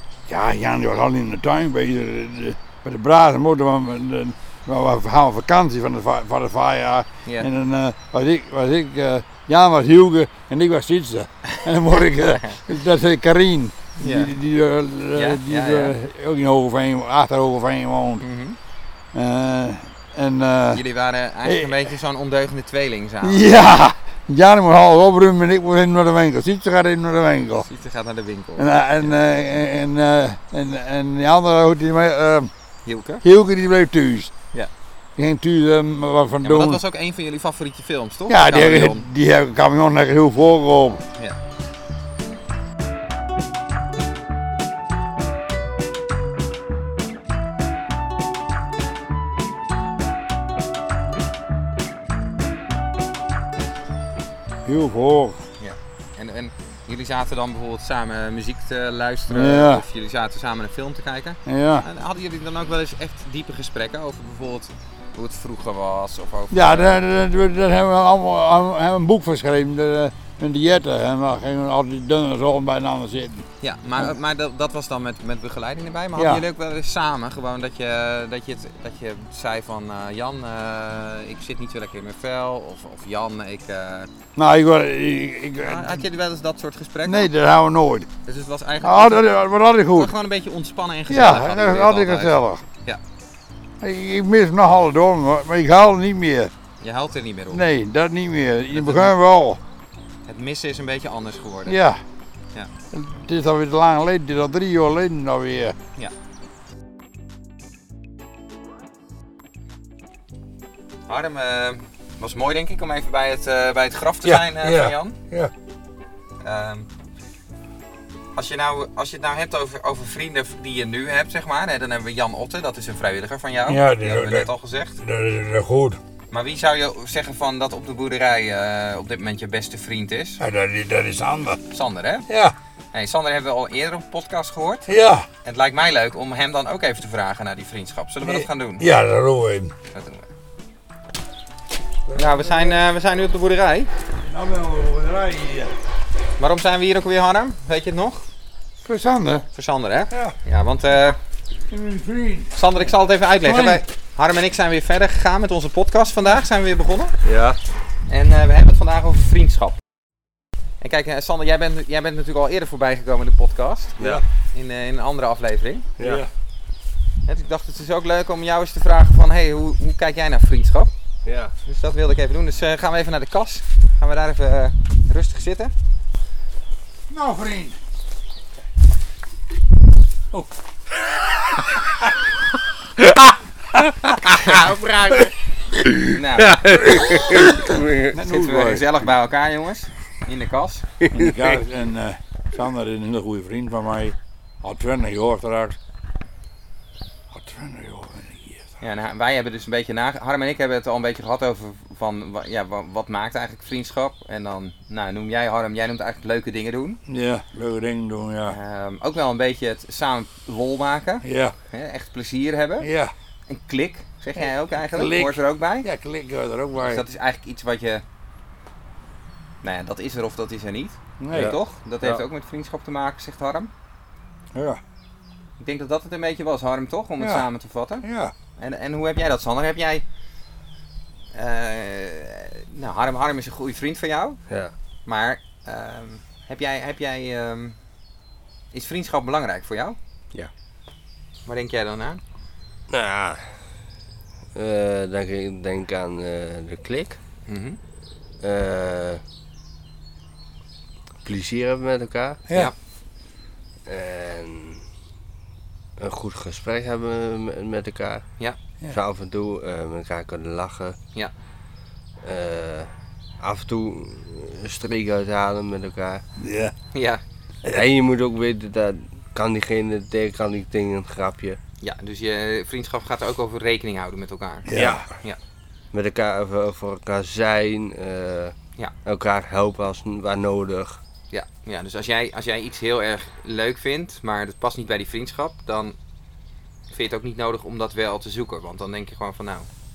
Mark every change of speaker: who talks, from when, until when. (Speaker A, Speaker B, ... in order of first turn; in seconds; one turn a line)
Speaker A: 0.3-18.2
Speaker B: 12.2-12.6
Speaker B: 14.0-14.3
Speaker B: 15.1-15.9
Speaker B: 18.2-18.6
Speaker A: 19.1-20.8
Speaker B: 20.7-23.6
Speaker A: 21.4-21.8
Speaker A: 23.2-27.7
Speaker B: 27.6-29.1
Speaker A: 28.6-32.5
Speaker B: 32.9-33.2
Speaker A: 33.2-34.3
Speaker A: 35.2-36.8
Speaker B: 36.4-39.1
Speaker A: 38.3-41.0
Speaker A: 54.6-55.4
Speaker B: 55.6-67.0
Speaker A: 59.3-59.8
Speaker A: 61.5-61.9
Speaker A: 66.5-74.1
Speaker B: 73.6-84.1
Speaker A: 76.1-76.4
Speaker A: 84.4-86.0
Speaker B: 85.6-87.3
Speaker A: 87.0-88.1
Speaker B: 88.2-89.3
Speaker A: 88.8-90.1
Speaker B: 89.9-93.0
Speaker A: 91.1-92.6
Speaker A: 93.8-96.5
Speaker B: 96.8-97.6
Speaker A: 97.5-99.6
Speaker B: 98.7-99.1
Speaker B: 100.3-101.8
Speaker A: 101.7-102.0
Speaker A: 102.9-105.8
Speaker B: 111.1-115.2
Speaker A: 114.2-115.5
Speaker B: 116.4-116.9
Speaker B: 118.3-125.0
Speaker A: 123.7-124.5
Speaker A: 125.0-126.0
Speaker B: 126.3-130.4
Speaker A: 130.4-131.6
Speaker B: 131.7-132.3
Speaker A: 132.3-132.5
Speaker B: 132.9-138.9
Speaker A: 134.9-135.3
Speaker A: 138.2-139.7
Speaker B: 139.9-140.3
Speaker A: 142.1-142.8
Speaker B: 142.2-143.9
Speaker A: 144.2-145.7
Speaker B: 146.4-148.3
Speaker A: 148.8-149.5
Speaker B: 149.5-151.2
Speaker A: 150.1-150.4
Speaker A: 151.7-152.9
Speaker B: 152.5-157.1
Speaker A: 153.4-153.8
Speaker C: 157.2-157.6
Speaker B: 158.1-159.8
Speaker B: 160.8-164.0
Speaker B: 164.5-165.9
Speaker A: 166.0-166.3
Speaker B: 167.3-170.9
Speaker C: 171.2-171.5
Speaker B: 171.6-175.7
Speaker A: 177.1-177.8
Speaker A: 180.3-182.1
Speaker A: 183.0-184.6
Speaker B: 184.4-185.2
Speaker C: 184.5-185.2
Speaker B: 186.1-186.8
Speaker C: 186.4-188.1
Speaker A: 186.8-189.1
Speaker B: 188.2-190.8
Speaker C: 191.0-191.5
Speaker A: 191.1-195.8
Speaker A: 197.3-198.7
Speaker B: 198.8-207.0
Speaker A: 207.1-208.6
Speaker B: 208.5-212.9
Speaker A: 211.2-211.6
Speaker A: 212.8-213.1
Speaker B: 213.5-215.9
Speaker A: 214.8-217.0
Speaker B: 216.8-218.0
Speaker B: 219.6-223.7
Speaker A: 221.2-221.6
Speaker A: 224.5-224.8
Speaker B: 225.6-228.1
Speaker A: 227.2-227.5
Speaker A: 228.0-228.3
Speaker B: 228.6-230.0
Speaker B: 231.3-234.4
Speaker B: 235.1-237.8
Speaker B: 238.7-240.0
Speaker B: 241.5-242.2
Speaker C: 242.9-243.5
Speaker C: 244.6-247.2
Speaker B: 247.5-247.8
Speaker C: 248.4-249.2
Speaker C: 251.2-252.4
Speaker A: 252.5-252.7
Speaker C: 253.9-254.8
Speaker C: 256.0-258.2
Speaker C: 258.9-261.0
Speaker C: 262.2-266.2
Speaker A: 266.4-266.7
Speaker B: 266.9-267.2
Speaker C: 267.7-271.6
Speaker B: 271.8-275.4
Speaker A: 274.6-275.1
Speaker C: 274.7-275.1
Speaker C: 275.9-281.0
Speaker B: 281.3-286.0
Speaker B: 286.9-289.7